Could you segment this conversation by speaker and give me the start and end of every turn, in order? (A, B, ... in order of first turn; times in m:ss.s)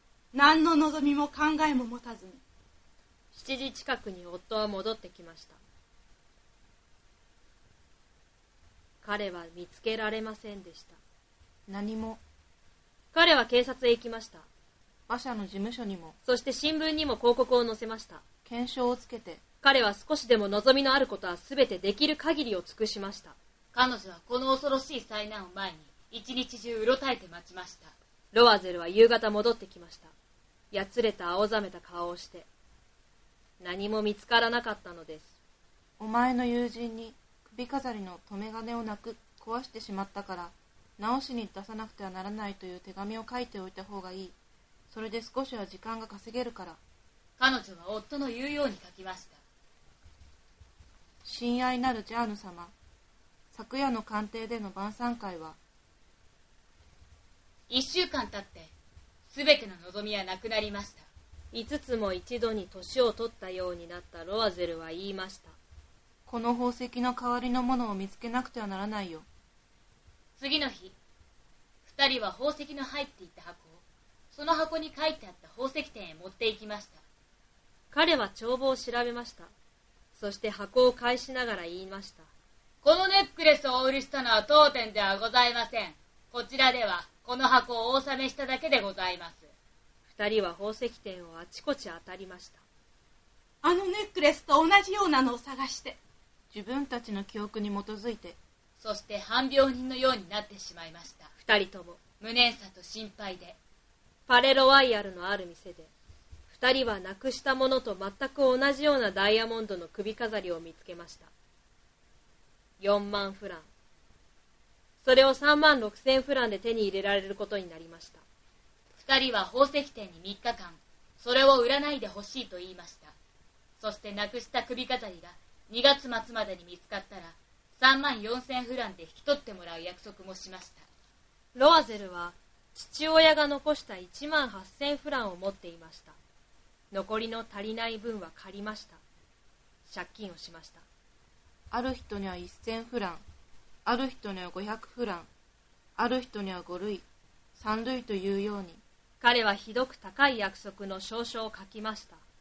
0:00.3-0:02.4 A
0:03.3-0:05.6 B
0:09.0-0:11.0 B
0:11.7-0:12.2 C
0:13.1-0:14.4 B
0:15.1-0:16.2 C
0:16.2-0:18.2 B
0:18.4-0:19.4 C
0:19.6-0:23.4 B
0:23.7-0:27.9 D
0:28.3-0:30.1 B
0:30.7-0:32.5 B
0:33.6-0:35.3 B
0:36.0-0:44.3 C
0:44.9-0:46.8 C
0:47.4-0:49.4 D
0:51.2-0:52.7 C
0:53.5-0:55.6 C
0:57.7-0:58.7 D
0:59.3-1:01.0 D
1:01.5-1:05.6 B
1:06.2-1:09.2 C
1:10.4-1:10.9 D
1:11.8-1:13.8 D
1:14.3-1:17.0 D
1:17.9-1:19.5 B
1:20.1-1:22.3 B
1:22.8-1:29.5 D
1:30.1-1:32.6 B
1:33.6-1:36.0 A
1:36.5-1:38.4 C
1:38.8-1:41.3 D
1:41.4-1:42.0 B
1:42.2-1:43.6 D
1:44.3-1:45.9 B
1:46.5-1:51.3 B
1:52.8-1:53.6 B
1:55.0-1:58.2 B
1:59.0-2:03.1 D
2:03.8-2:10.8 D
2:11.5-2:16.1 B
2:16.9-2:19.0 B
2:19.9-2:20.8 B
2:21.7-2:23.2 C
2:23.8-2:25.3 C
2:26.0-2:27.0 C
2:27.6-2:28.8 C
2:29.2-2:32.2 B